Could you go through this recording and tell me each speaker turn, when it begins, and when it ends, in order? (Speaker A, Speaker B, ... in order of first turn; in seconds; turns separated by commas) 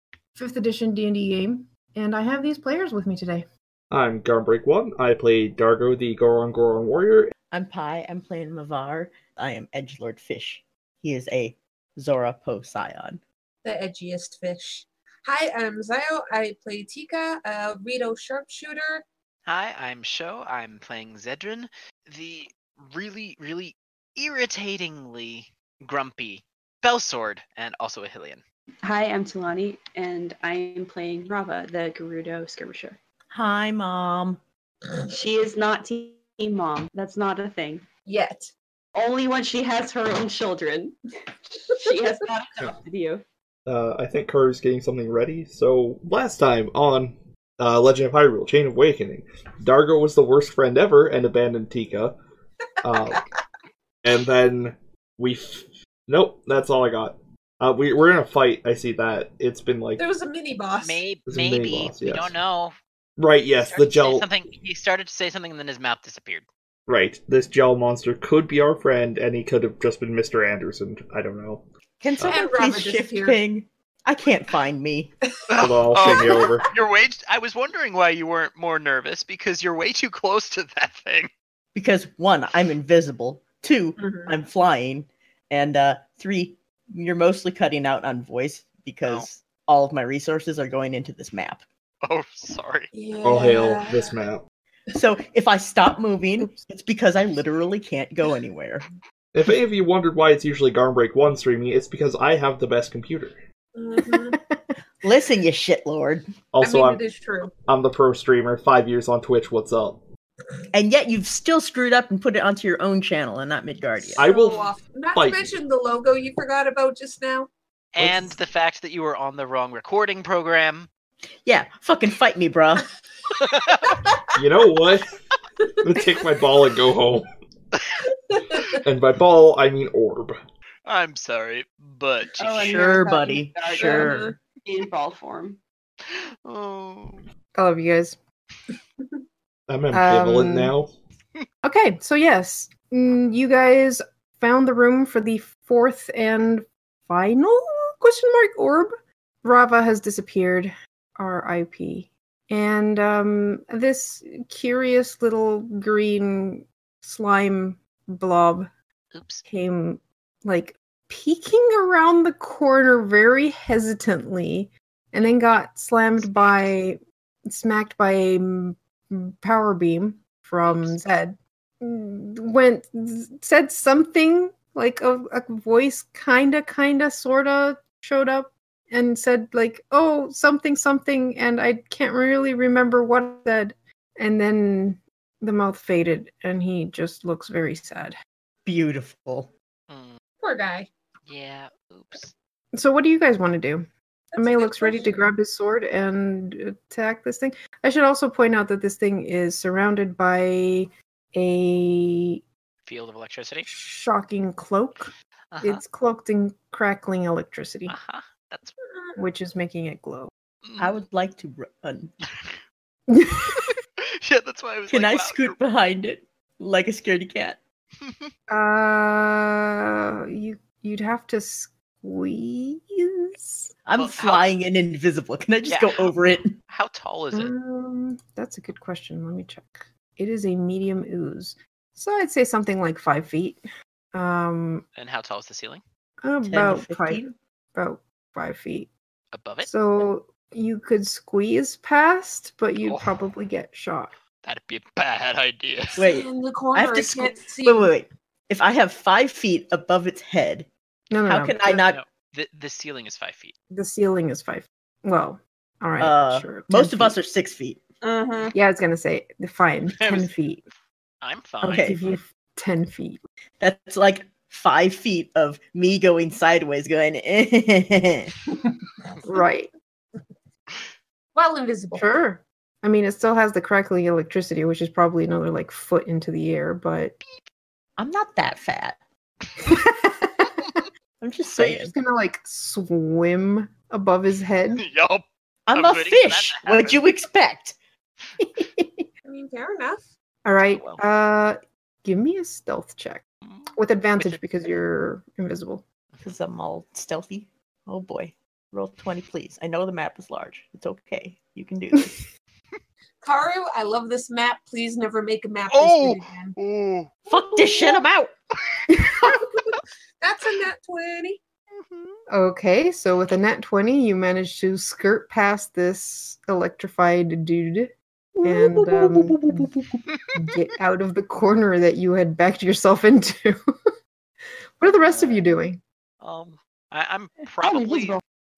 Speaker A: 0.3-3.5, Speaker B: 3.9-7.3, Speaker C: 7.5-13.2, Speaker D: 13.6-19.0, Speaker E: 19.4-28.4, Speaker F: 28.8-33.0, Speaker C: 33.3-34.4, Speaker F: 35.1-37.8, Speaker D: 38.1-38.5, Speaker F: 38.9-40.9, Speaker F: 41.6-43.2, Speaker B: 43.6-52.1, Speaker B: 52.8-53.3, Speaker D: 52.9-53.2, Speaker B: 54.0-60.1, Speaker D: 60.0-61.0, Speaker E: 60.8-62.7, Speaker B: 61.3-62.3, Speaker B: 63.2-64.3, Speaker E: 63.6-66.5, Speaker B: 66.9-71.7, Speaker C: 72.0-75.1, Speaker D: 72.2-73.4, Speaker E: 75.5-81.3, Speaker B: 75.6-76.7, Speaker D: 76.0-76.5, Speaker C: 81.7-91.6, Speaker D: 84.0-84.3, Speaker E: 92.0-92.9, Speaker D: 92.9-94.1, Speaker B: 93.2-94.4, Speaker C: 94.9-98.8, Speaker B: 99.3-103.4, Speaker D: 103.8-104.4, Speaker A: 104.0-104.7, Speaker C: 105.0-106.2, Speaker B: 106.5-107.0, Speaker D: 106.6-107.5, Speaker B: 107.7-110.0, Speaker C: 110.7-114.3, Speaker B: 114.2-115.6, Speaker D: 114.2-117.5, Speaker E: 117.9-120.9, Speaker B: 118.0-118.4, Speaker C: 121.4-122.9, Speaker E: 123.4-123.9, Speaker B: 124.3-125.1, Speaker B: 125.8-127.3, Speaker D: 128.3-128.8, Speaker B: 128.8-130.3, Speaker E: 130.8-132.8, Speaker F: 132.4-135.6, Speaker C: 132.6-134.3, Speaker D: 132.6-134.3, Speaker E: 136.1-137.2, Speaker A: 137.5-138.2, Speaker B: 139.7-140.9, Speaker A: 139.9-140.7, Speaker A: 141.6-148.9, Speaker A: 149.4-158.7, Speaker E: 159.1-159.4, Speaker A: 159.4-188.1, Speaker E: 165.2-165.6, Speaker E: 166.2-166.8, Speaker E: 170.6-171.0, Speaker C: 188.6-189.5, Speaker E: 189.9-190.2, Speaker D: 190.4-190.9, Speaker E: 191.2-192.3, Speaker A: 192.7-202.4, Speaker D: 194.3-195.2, Speaker E: 202.8-203.7, Speaker A: 203.7-205.1, Speaker E: 205.5-205.8, Speaker A: 205.6-207.9, Speaker E: 207.9-208.7, Speaker D: 208.9-209.2, Speaker A: 209.2-210.3, Speaker E: 210.6-211.0, Speaker C: 210.8-212.1, Speaker E: 212.3-212.6, Speaker A: 213.1-213.7, Speaker E: 213.6-215.6, Speaker C: 214.9-217.6, Speaker E: 218.0-218.3, Speaker A: 218.5-223.7, Speaker C: 223.8-226.5, Speaker E: 224.0-224.5, Speaker E: 225.7-226.1, Speaker E: 226.7-227.5, Speaker A: 227.3-233.6, Speaker A: 234.1-234.8, Speaker E: 235.0-235.8, Speaker A: 236.2-238.9, Speaker C: 236.4-237.3, Speaker E: 239.3-239.7, Speaker A: 239.6-244.1, Speaker E: 242.8-243.1, Speaker E: 244.4-246.1, Speaker C: 246.0-250.7, Speaker D: 246.0-247.9, Speaker A: 251.1-251.7, Speaker C: 251.2-252.0, Speaker E: 251.7-253.5, Speaker A: 253.7-257.2, Speaker C: 256.0-257.8, Speaker D: 258.0-258.5, Speaker A: 258.5-260.6, Speaker E: 259.9-260.3, Speaker E: 261.2-261.9, Speaker C: 261.6-262.0, Speaker A: 261.6-263.2, Speaker C: 263.6-268.3, Speaker A: 269.2-269.7, Speaker D: 271.3-272.1, Speaker A: 271.9-277.1, Speaker C: 278.0-279.0, Speaker A: 279.6-280.8, Speaker C: 281.2-281.9, Speaker A: 281.5-284.8, Speaker E: 284.7-287.1, Speaker C: 285.7-287.8, Speaker C: 288.4-289.1, Speaker D: 289.2-290.1, Speaker A: 290.4-293.2, Speaker E: 290.7-291.0, Speaker E: 293.4-294.4, Speaker A: 293.7-295.8, Speaker E: 296.1-296.4, Speaker C: 296.2-302.2, Speaker D: 303.2-306.6, Speaker E: 305.7-307.1, Speaker C: 307.3-308.3, Speaker E: 308.7-308.9, Speaker A: 308.9-309.2, Speaker D: 309.2-311.4, Speaker E: 311.8-312.2, Speaker A: 312.3-319.7, Speaker F: 318.4-319.7, Speaker A: 320.3-323.6, Speaker A: 324.8-325.8, Speaker E: 324.9-325.5, Speaker E: 326.2-328.2, Speaker F: 327.6-328.2